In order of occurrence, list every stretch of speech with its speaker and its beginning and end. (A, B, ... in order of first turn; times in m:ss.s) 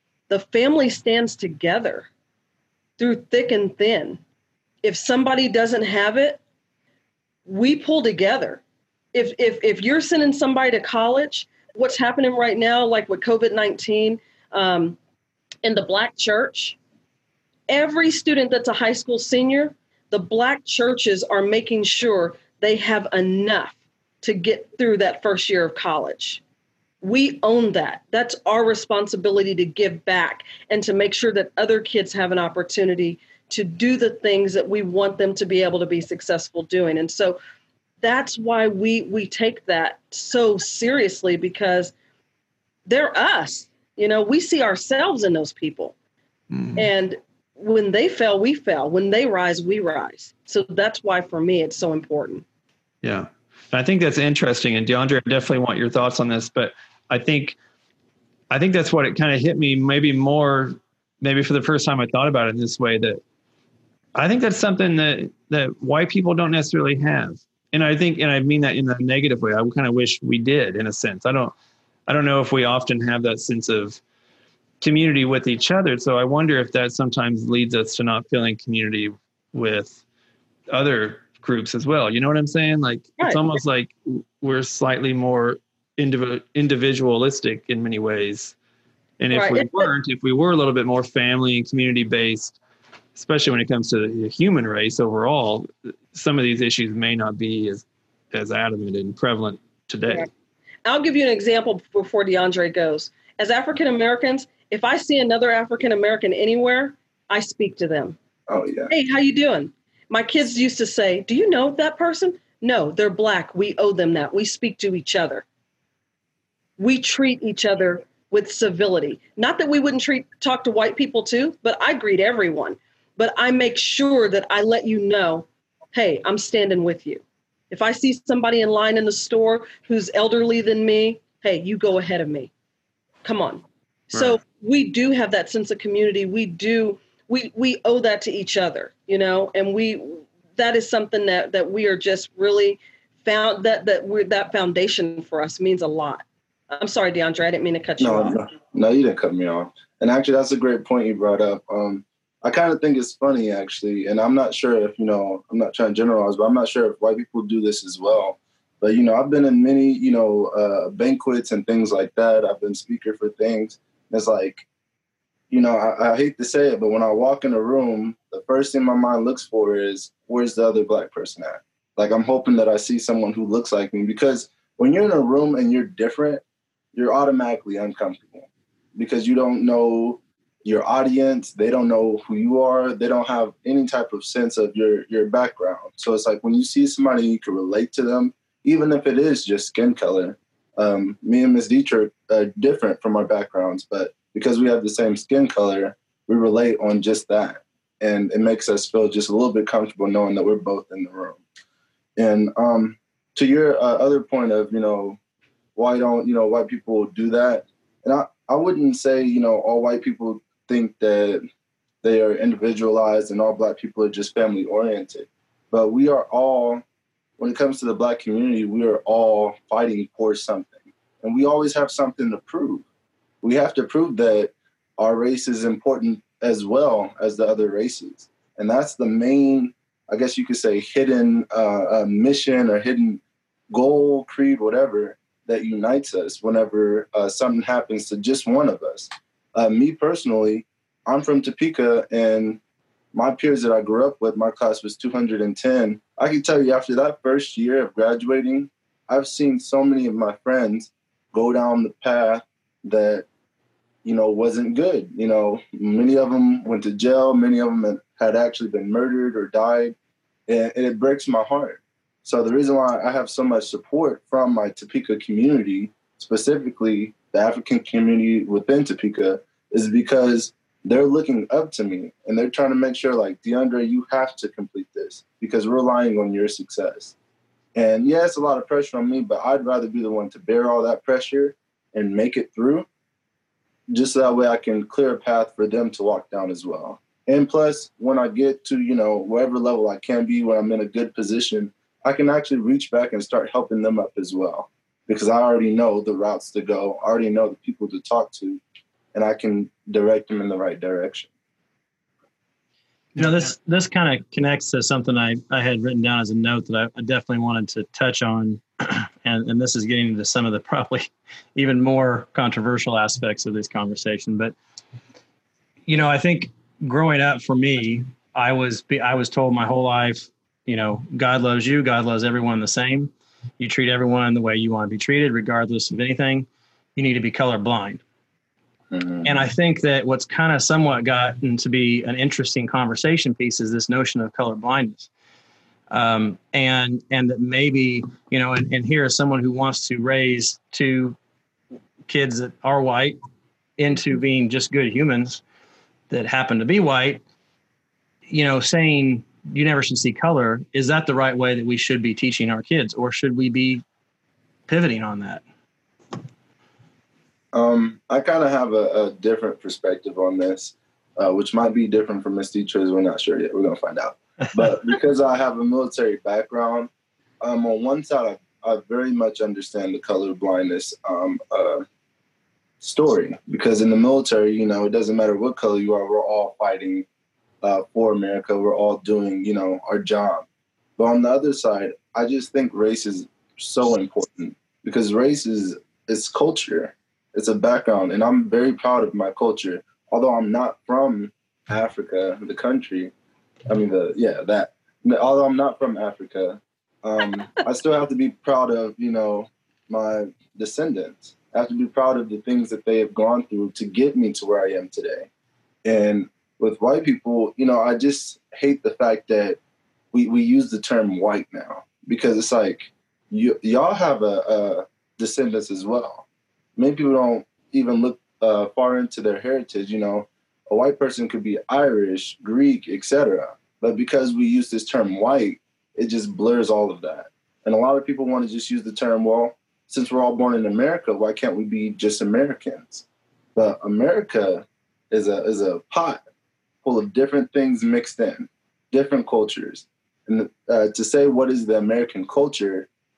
0:00.3-0:02.1 A
0:03.0-0:04.2 A
0:04.8-0:06.4 A
0:07.4-0:08.6 A
0:09.1-0:15.0 A
0:15.6-0:16.8 A
0:17.7-0:26.4 A
0:27.0-0:37.4 A
0:38.0-0:41.9 A
0:42.8-0:45.9 A
0:46.5-0:46.9 B
0:46.8-0:52.4 A
0:53.0-0:57.6 B
0:58.5-1:03.2 B
1:04.1-1:11.5 B
1:12.1-1:14.0 B
1:14.8-1:20.0 B
1:20.7-1:28.5 B
1:23.2-1:23.5 A
1:29.2-1:32.6 B
1:29.3-1:29.9 A
1:33.1-1:40.2 B
1:40.8-1:48.2 A
1:48.5-1:48.9 C
1:48.9-1:55.4 A
1:56.8-2:12.5 A
2:13.2-2:28.4 A
2:14.1-2:14.4 B
2:28.0-2:44.6 C
2:45.5-2:56.4 C
2:56.9-3:21.4 C
3:22.2-3:25.2 C
3:25.8-3:31.4 C
3:32.0-3:36.8 C
3:37.4-3:42.8 C
3:43.4-4:02.6 C
4:03.1-4:13.3 C
4:14.0-4:20.0 C
4:20.5-4:37.1 C
4:37.7-4:42.9 C
4:43.9-4:58.6 C
4:59.1-5:01.3 C
5:03.2-5:14.5 D
5:15.9-5:28.0 D
5:28.9-5:29.3 C
5:29.2-5:35.1 D
5:35.9-5:41.2 D
5:42.1-5:43.2 D
5:43.8-5:45.4 D
5:46.1-5:47.2 D
5:48.3-5:53.8 D
5:54.7-5:55.4 D
5:57.5-6:06.9 C
6:07.4-6:11.8 C
6:12.8-6:17.0 C
6:17.6-6:20.4 C
6:21.0-6:33.1 C
6:33.7-6:45.3 C
6:45.8-6:49.6 C
6:50.1-6:56.2 C
6:56.8-7:16.2 C
7:16.8-7:22.9 C